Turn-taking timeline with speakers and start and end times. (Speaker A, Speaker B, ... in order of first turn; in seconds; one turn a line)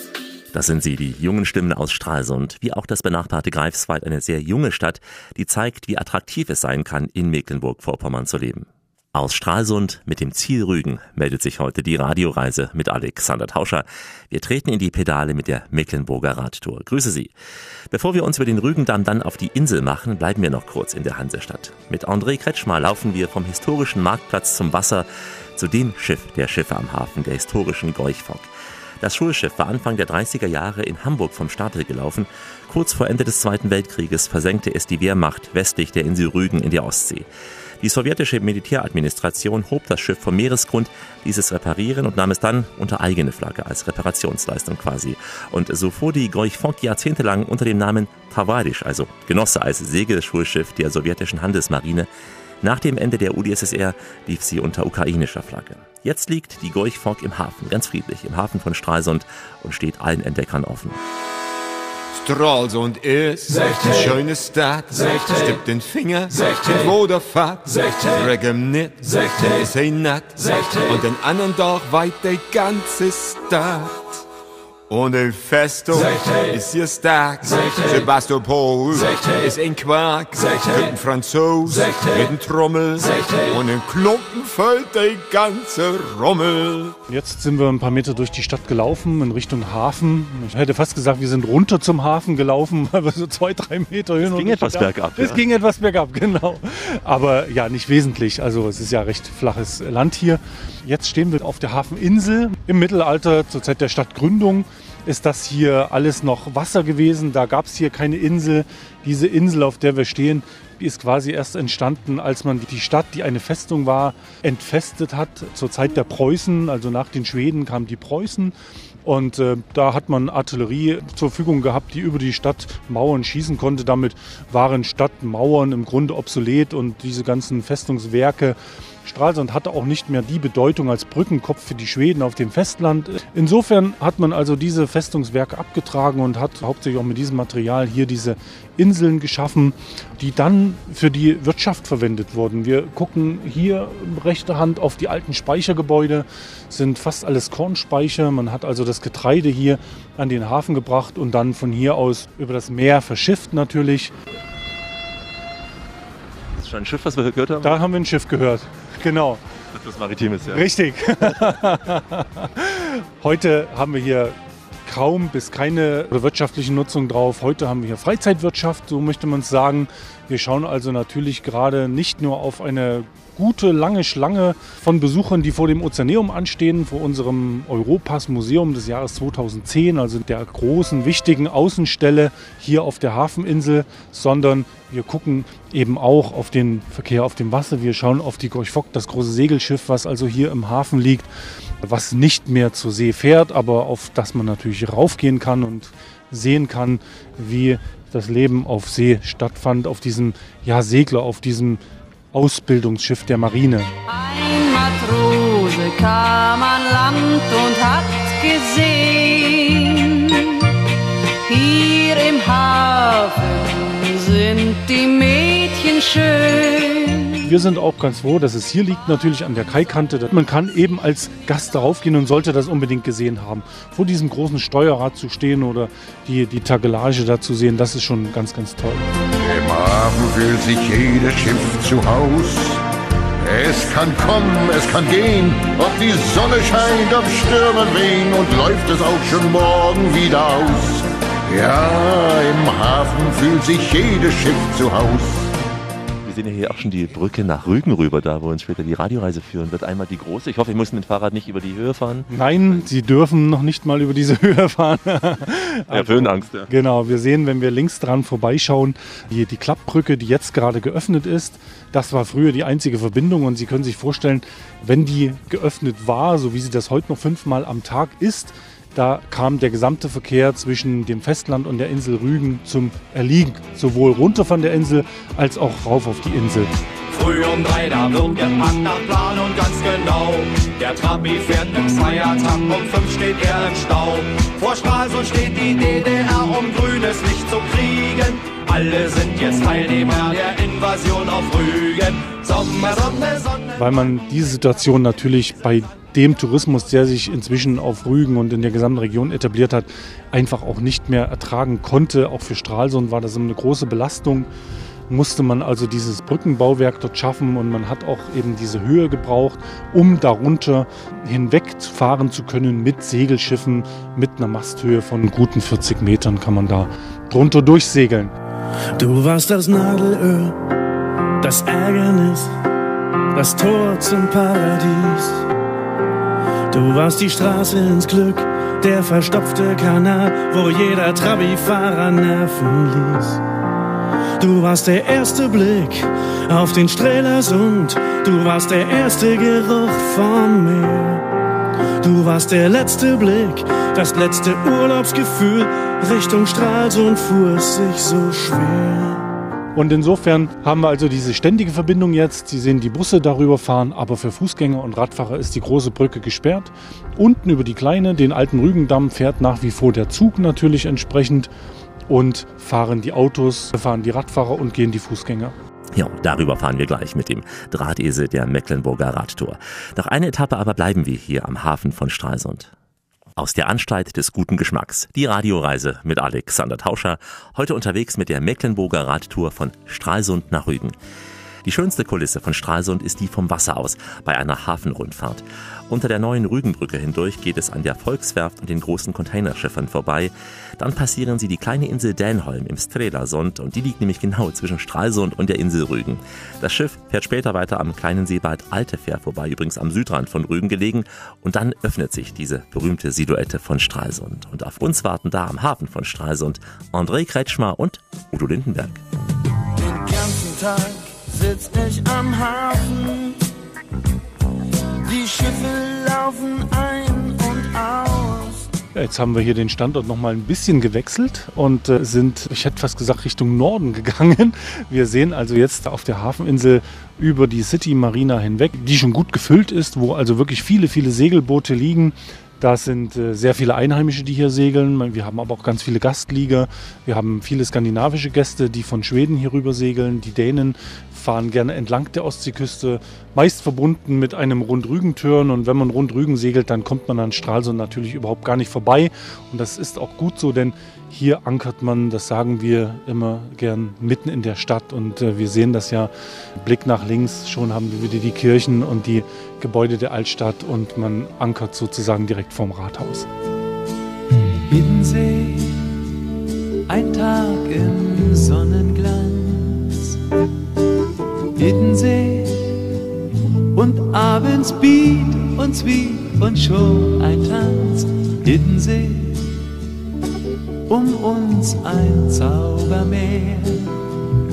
Speaker A: 0.5-17.3
Speaker A: 17.9-28.5
Speaker A: 29.0-37.2
Speaker A: 37.8-52.1
Speaker A: 52.6-61.0
Speaker B: 62.1-74.2
Speaker B: 74.9-87.0
Speaker C: 87.1-118.5
Speaker A: 94.2-95.4
Speaker C: 119.0-154.1
Speaker A: 156.6-157.8
Speaker C: 157.6-159.4
Speaker A: 159.7-160.6
Speaker C: 160.5-191.3
Speaker C: 191.8-201.8
Speaker C: 202.3-203.9
Speaker D: 204.1-210.6
Speaker D: 211.4-217.2
Speaker C: 217.4-229.1
Speaker E: 229.4-232.8
Speaker E: 233.4-245.4
Speaker A: 246.2-252.8
Speaker C: 252.3-276.7
Speaker A: 255.9-256.7
Speaker F: 277.1-293.7
Speaker C: 293.8-304.5
Speaker C: 305.1-318.3
Speaker G: 318.9-320.6
Speaker G: 321.4-322.5
Speaker G: 323.3-325.4
Speaker G: 326.7-333.4
Speaker G: 334.4-341.2
Speaker G: 342.0-349.2
Speaker C: 349.7-361.5
Speaker C: 362.1-365.6
Speaker A: 365.9-372.7
Speaker A: 373.4-380.9
Speaker A: 381.6-409.0
Speaker H: 409.7-413.4
Speaker H: 415.0-418.7
Speaker C: 418.9-463.3
Speaker I: 464.6-465.9
Speaker I: 466.9-470.2
Speaker I: 471.6-472.7
Speaker I: 473.7-479.6
Speaker I: 480.9-484.0